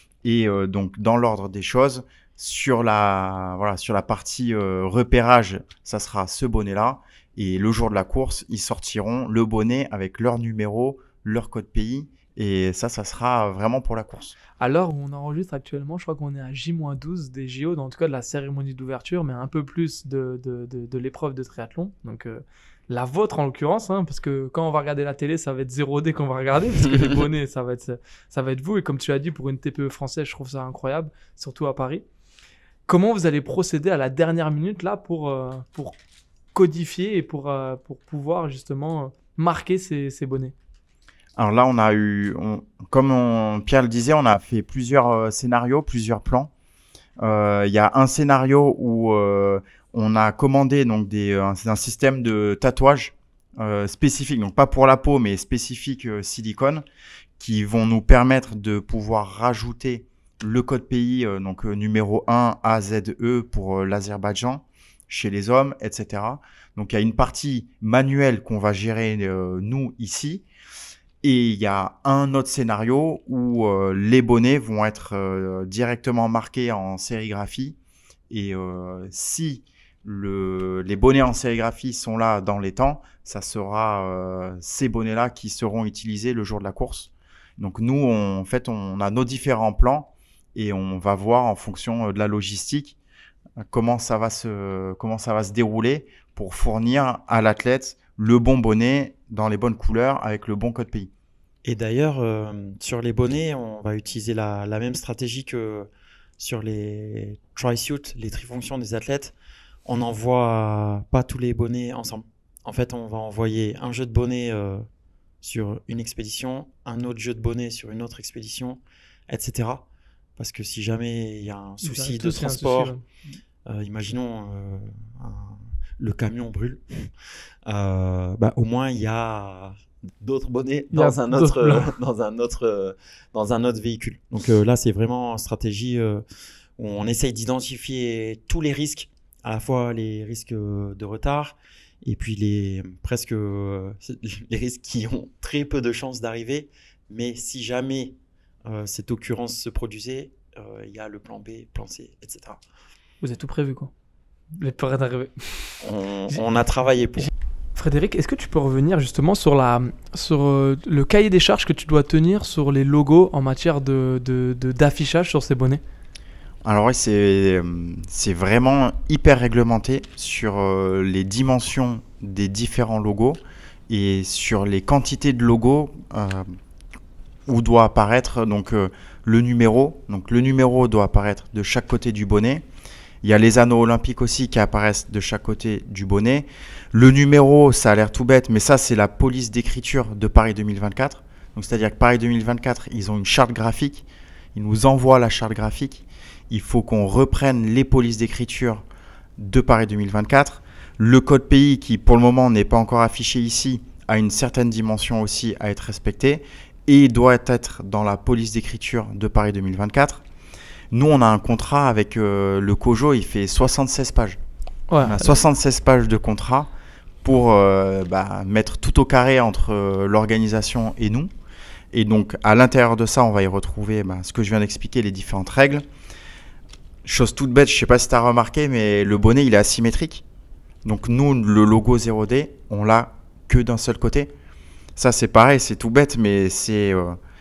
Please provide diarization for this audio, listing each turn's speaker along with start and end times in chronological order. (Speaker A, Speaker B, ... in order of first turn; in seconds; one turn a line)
Speaker A: 0.2-14.4
Speaker B: 14.6-32.0
Speaker B: 32.9-35.9
Speaker B: 36.5-40.5
Speaker A: 41.4-46.5
Speaker A: 47.2-56.8
Speaker A: 57.4-70.5
Speaker A: 71.2-77.8
Speaker A: 78.3-93.0
Speaker A: 93.7-101.1
Speaker C: 101.7-105.9
Speaker C: 106.4-109.3
Speaker C: 109.9-114.8
Speaker C: 115.4-119.9
Speaker C: 120.4-122.9
Speaker B: 121.8-123.0
Speaker C: 123.7-127.1
Speaker C: 127.7-136.2
Speaker B: 130.9-131.9
Speaker C: 136.8-152.6
Speaker B: 153.2-153.9
Speaker B: 154.6-156.4
Speaker C: 155.8-157.3
Speaker B: 157.2-165.8
Speaker A: 166.7-176.5
Speaker A: 177.5-182.6
Speaker A: 183.2-198.8
Speaker A: 199.4-210.2
Speaker A: 210.9-214.4
Speaker B: 214.9-215.4
Speaker A: 215.0-216.7
Speaker A: 217.2-221.3
Speaker A: 221.9-225.8
Speaker A: 227.1-230.2
Speaker A: 230.8-234.3
Speaker A: 235.0-237.2